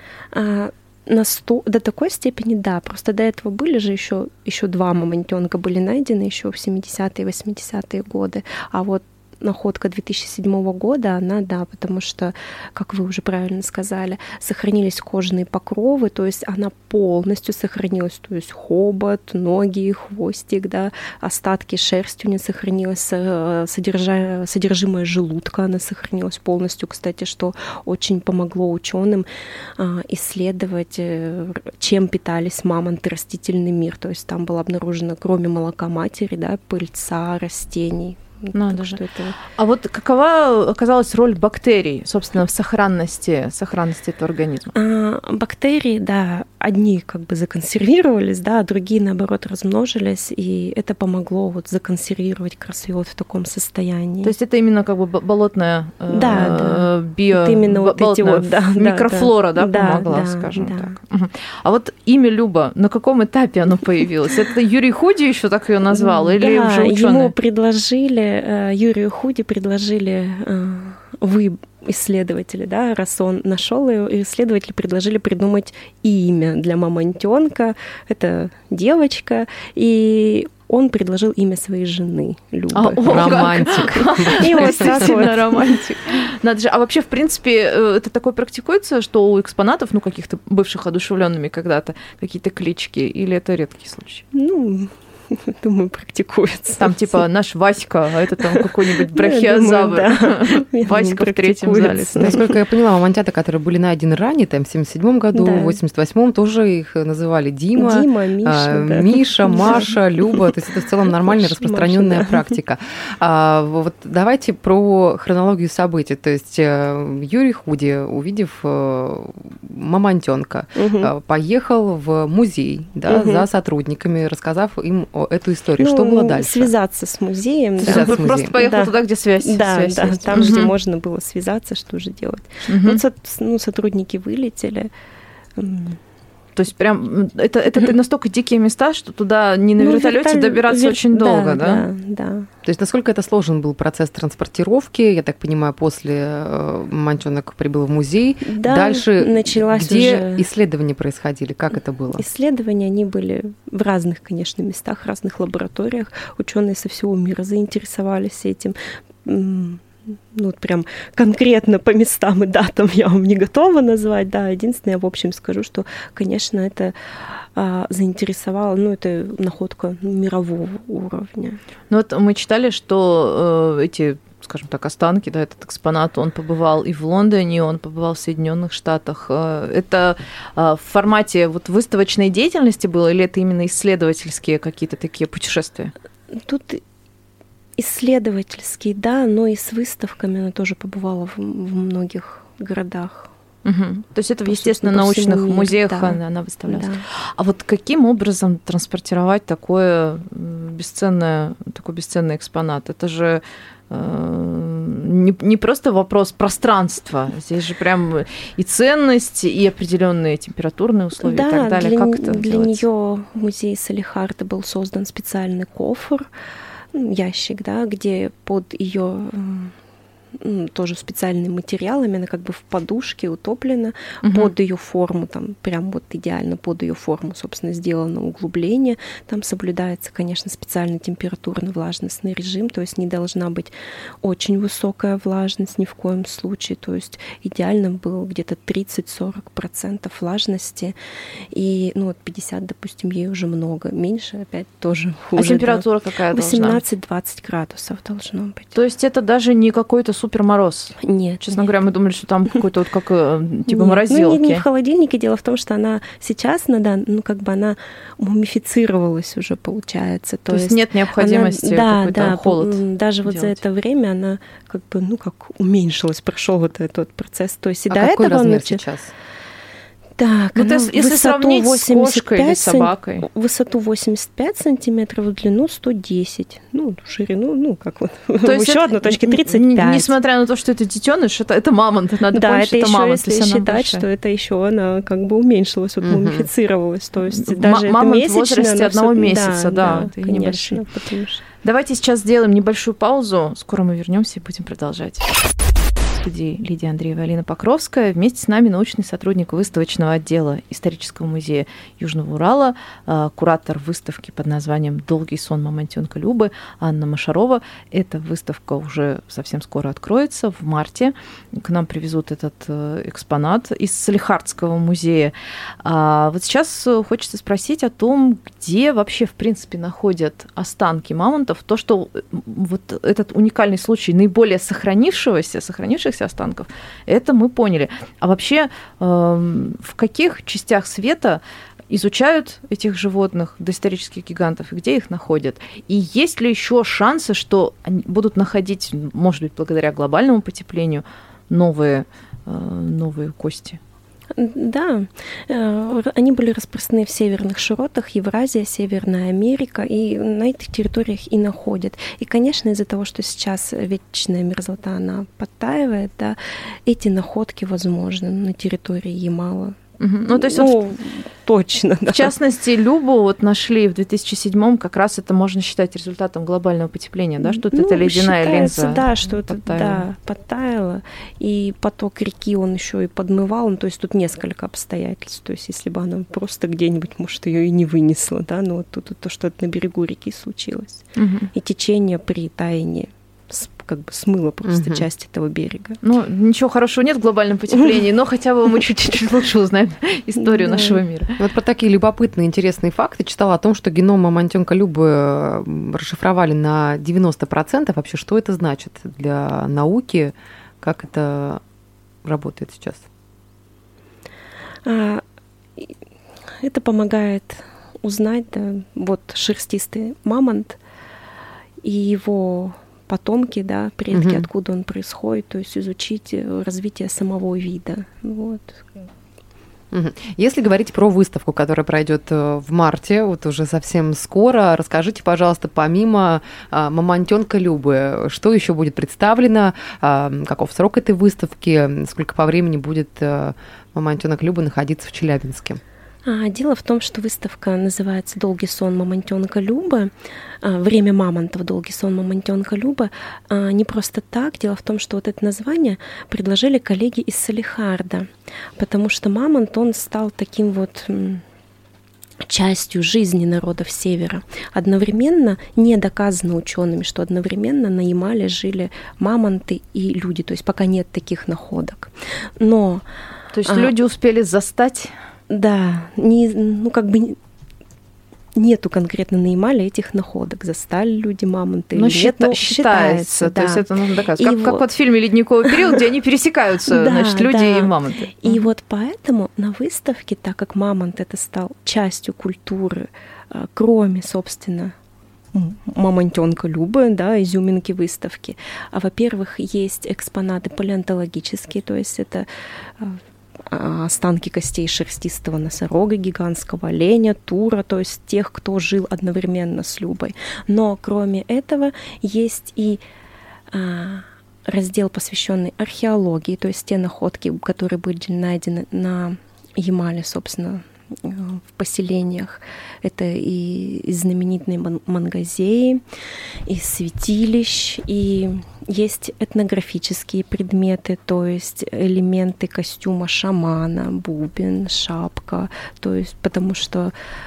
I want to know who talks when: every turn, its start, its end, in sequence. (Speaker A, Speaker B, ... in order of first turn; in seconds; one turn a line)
Speaker A: 0.3-39.4
Speaker B: 38.5-39.0
Speaker B: 39.5-44.7
Speaker A: 44.7-54.3
Speaker B: 54.2-67.3
Speaker A: 56.1-61.0
Speaker A: 65.9-85.8
Speaker B: 82.7-94.2
Speaker C: 83.1-84.9
Speaker A: 94.3-97.2
Speaker B: 96.8-102.3
Speaker A: 98.5-102.6
Speaker C: 102.2-126.7
Speaker A: 105.3-105.8
Speaker A: 107.8-110.5
Speaker A: 111.1-112.6
Speaker A: 120.8-121.1
Speaker A: 123.1-123.5
Speaker A: 125.8-134.9
Speaker B: 127.8-130.7
Speaker C: 127.8-128.5
Speaker B: 132.7-133.0
Speaker A: 135.6-136.0
Speaker B: 136.6-141.8
Speaker A: 139.8-142.5
Speaker C: 142.7-152.3
Speaker A: 148.4-150.5
Speaker A: 152.1-171.6
Speaker B: 171.9-185.9
Speaker A: 186.3-186.8
Speaker A: 187.8-193.3
Speaker B: 193.7-212.8
Speaker A: 194.5-197.0
Speaker A: 211.2-216.3
Speaker A: 216.9-219.8
Speaker A: 220.4-241.0
Speaker B: 224.2-224.5
Speaker A: 241.5-248.8
Speaker B: 245.4-246.8
Speaker B: 248.7-254.6
Speaker A: 251.0-251.7
Speaker A: 253.7-268.9
Speaker B: 260.5-263.6
Speaker C: 267.9-269.1
Speaker A: 270.2-280.2
Speaker B: 270.6-273.3
Speaker B: 278.4-284.1
Speaker A: 282.3-291.4
Speaker C: 286.0-286.5
Speaker B: 287.3-290.9
Speaker B: 291.6-295.3
Speaker B: 296.2-343.8
Speaker A: 344.4-359.8
Speaker B: 360.0-360.8
Speaker A: 360.3-362.3
Speaker B: 362.1-370.0
Speaker A: 367.4-386.0
Speaker B: 381.2-381.5
Speaker C: 384.6-385.1
Speaker B: 386.0-391.4
Speaker A: 390.4-391.0
Speaker C: 391.4-401.6
Speaker C: 402.2-403.0
Speaker A: 404.9-405.2
Speaker A: 406.6-410.8
Speaker A: 411.8-419.0
Speaker C: 414.1-414.5
Speaker C: 419.9-435.8
Speaker A: 436.3-440.1
Speaker A: 440.6-451.4
Speaker A: 452.4-463.1
Speaker B: 463.5-465.1
Speaker A: 463.6-463.9
Speaker A: 465.5-467.4
Speaker A: 468.6-473.8
Speaker B: 471.9-478.7
Speaker A: 474.4-474.9
Speaker A: 475.6-476.1
Speaker A: 476.9-484.9
Speaker A: 485.5-492.5
Speaker A: 493.0-503.0
Speaker A: 503.7-516.0
Speaker A: 516.7-527.1